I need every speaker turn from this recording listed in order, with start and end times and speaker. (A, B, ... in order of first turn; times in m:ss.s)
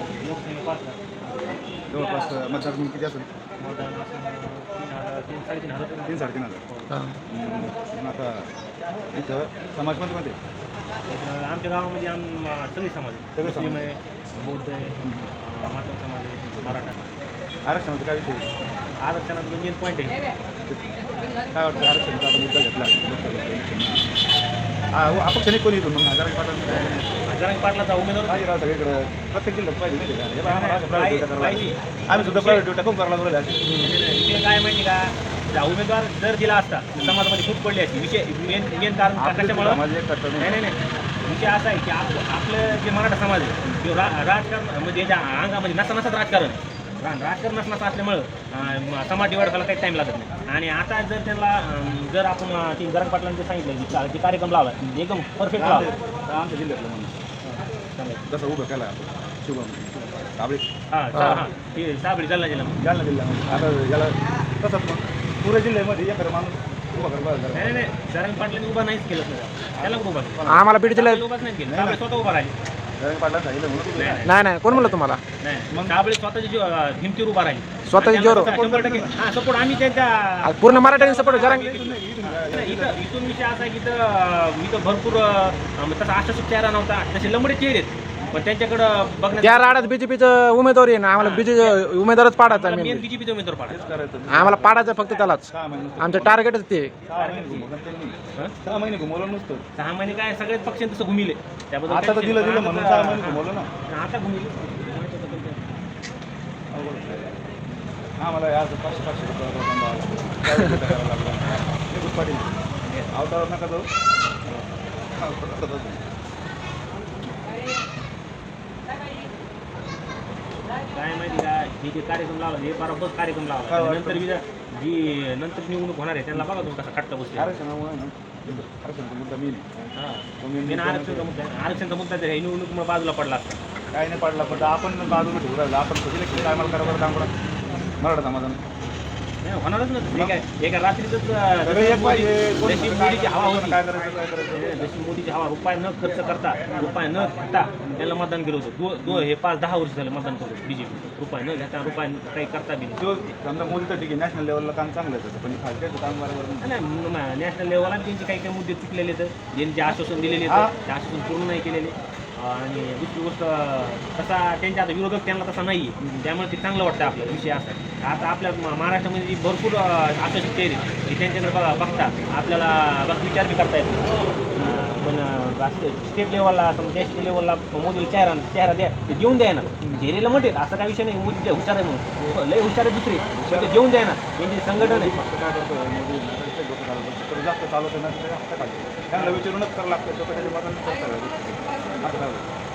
0:00.2-0:02.3 A
0:01.9-0:03.3 B
0:03.6-0:07.0 A
0:06.1-0:06.6 B
0:06.9-0:07.2 C
0:07.3-0:08.5 B
0:09.1-0:10.4 B
0:11.1-0:17.1 A
0:13.4-0:13.8 B
0:15.0-0:15.3 B
0:16.5-0:16.8 B
0:17.6-0:18.5 B
0:19.0-0:20.2 A
0:21.5-0:24.1 B
0:24.9-0:27.2 B
0:26.7-0:28.4 A
0:28.3-0:33.8 B
0:30.4-0:32.7 A
0:33.8-0:39.8 A
0:39.1-0:40.6 B
0:40.4-0:55.9 A
0:55.5-0:57.2 B
0:57.4-0:58.2 A
0:58.3-1:00.6 B
1:00.9-1:02.8 A
1:01.1-1:01.4 C
1:02.8-1:07.9 B
1:07.5-1:12.5 A
1:09.8-1:10.6 B
1:10.4-1:11.2 C
1:11.6-1:12.0 B
1:13.0-1:14.9 B
1:13.9-1:29.9 A
1:14.2-1:15.2 C
1:15.7-1:16.0 B
1:17.8-1:18.5 C
1:18.1-1:19.2 B
1:20.4-1:21.7 C
1:20.8-1:23.0 B
1:29.4-1:33.1 C
1:31.2-1:31.8 A
1:32.4-1:33.8 A
1:33.7-1:34.8 B
1:34.3-1:37.0 C
1:35.5-1:36.4 B
1:37.0-1:39.6 B
1:37.1-1:37.7 A
1:39.8-1:45.6 A
1:41.9-1:43.7 B
1:46.7-1:47.4 B
1:48.2-1:52.6 B
1:51.4-1:51.6 A
1:53.1-1:53.9 B
1:55.2-1:56.0 B
2:00.9-2:07.6 A
2:03.7-2:04.3 B
2:07.4-2:09.7 B
2:10.0-2:13.6 A
2:10.4-2:11.3 B
2:13.9-2:17.3 B
2:14.3-2:14.8 A
2:18.0-2:18.6 B
2:19.4-2:23.8 A
2:20.1-2:20.4 B
2:21.6-2:24.9 B
2:24.5-2:33.0 A
2:33.0-2:36.7 B
2:36.6-3:05.1 A
2:40.4-2:40.7 B
2:46.0-2:46.3 B
2:59.8-3:00.1 B
3:03.3-3:03.9 B
3:04.8-3:12.5 B
3:09.1-3:09.4 A